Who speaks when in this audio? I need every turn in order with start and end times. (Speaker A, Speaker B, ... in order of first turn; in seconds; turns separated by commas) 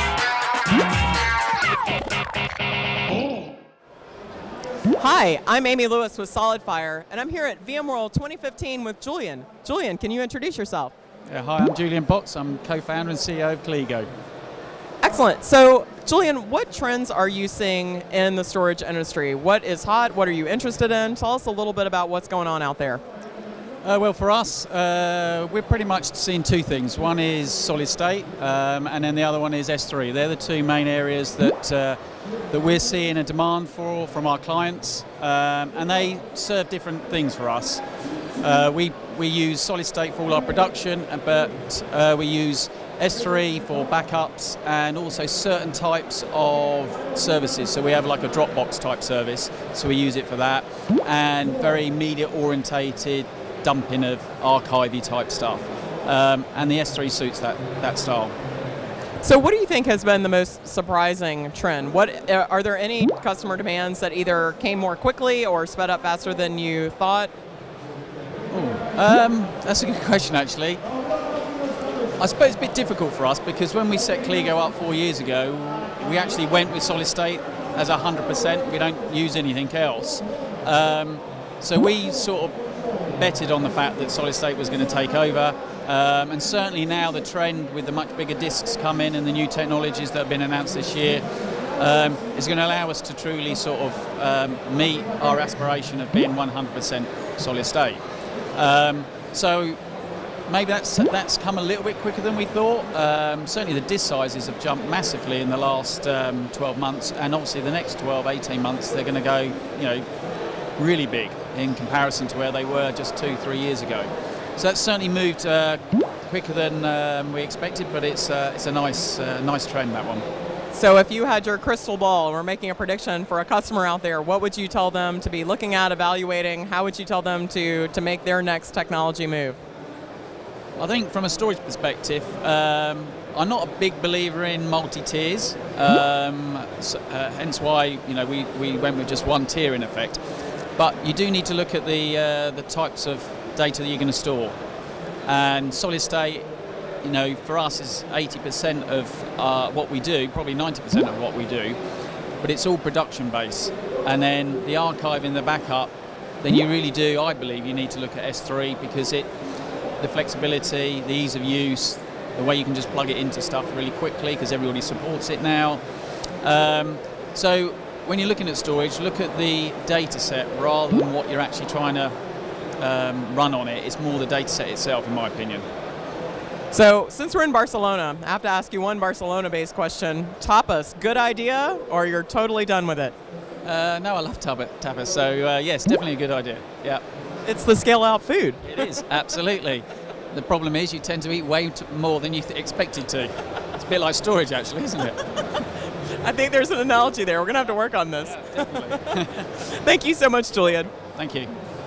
Speaker A: 4.9-10.9, Speaker B: 11.3-14.1, Speaker A: 15.0-23.0, Speaker B: 23.8-32.0, Speaker B: 32.5-37.8, Speaker B: 38.4-58.3, Speaker A: 59.2-67.3, Speaker B: 68.5-70.8, Speaker B: 72.2-82.5, Speaker B: 83.2-91.2, Speaker B: 91.8-98.0, Speaker B: 98.5-99.8, Speaker B: 100.5-110.0, Speaker B: 110.8-120.2, Speaker A: 120.7-129.6, Speaker B: 130.8-140.2, Speaker B: 140.8-144.5, Speaker B: 145.3-146.4, Speaker B: 147.0-151.8, Speaker B: 152.4-159.3, Speaker B: 160.0-165.8, Speaker B: 166.4-172.1, Speaker B: 172.8-175.6, Speaker A: 176.7-183.1, Speaker B: 183.6-187.0, Speaker A: 187.4-188.8, Speaker B: 188.6-195.4, Speaker A: 195.4-200.9, Speaker B: 198.3-199.5, Speaker B: 201.1-201.5